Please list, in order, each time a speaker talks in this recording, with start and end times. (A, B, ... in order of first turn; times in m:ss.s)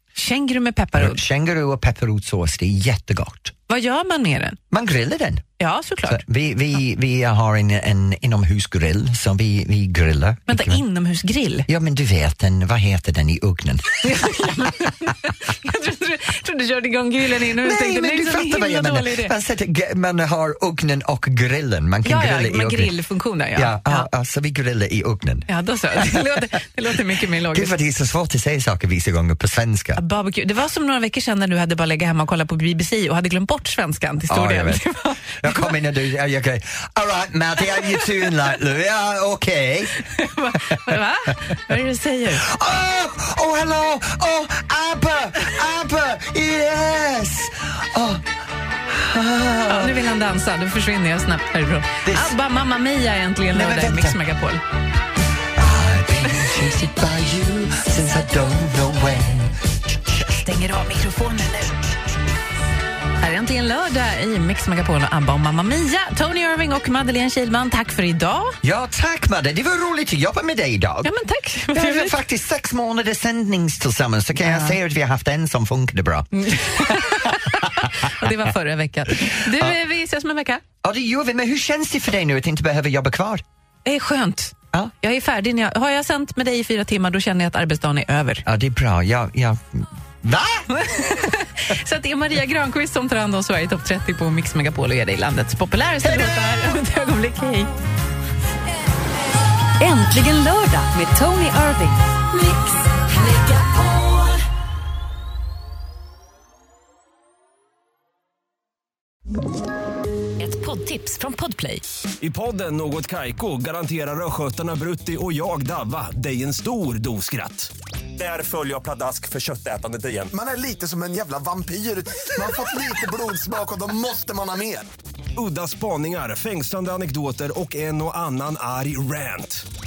0:00.1-0:01.2 A
0:01.0-0:03.5 B
0:03.7-0:04.6 A
0:04.7-0:05.4 B
0:05.6-0:06.2 A
0:06.1-0:10.8 B
0:10.5-0:11.7 A
0:11.7-0:14.2 B
0:14.0-0:19.3 A
0:17.6-0:22.9 B
0:22.0-0:24.1 A
0:23.5-0:25.5 B
0:25.5-0:27.7 A
0:27.5-0:30.0 B
0:30.0-0:35.8 A
0:34.3-0:34.8 B
0:35.4-0:40.0 B
0:40.0-0:42.4 A
0:42.4-0:48.2 B
0:48.9-0:50.0 B
0:49.7-0:54.6 A
0:52.0-0:52.3 B
0:53.5-0:54.2 B
0:55.6-1:00.2 B
1:00.3-1:01.9 A
1:03.2-1:08.6 A
1:08.6-1:11.1 B
1:11.0-1:12.2 A
1:11.7-1:16.4 B
1:14.4-1:14.8 A
1:16.3-1:20.6 A
1:17.2-1:17.8 B
1:20.8-1:23.4 B
1:23.8-1:28.4 A
1:28.4-1:30.7 B
1:30.7-1:37.7 A
1:39.8-1:42.0 C
1:50.4-1:51.8 A
1:50.5-1:51.2 C
1:52.2-2:00.3 D
2:00.3-2:04.8 E
2:05.4-2:09.6 D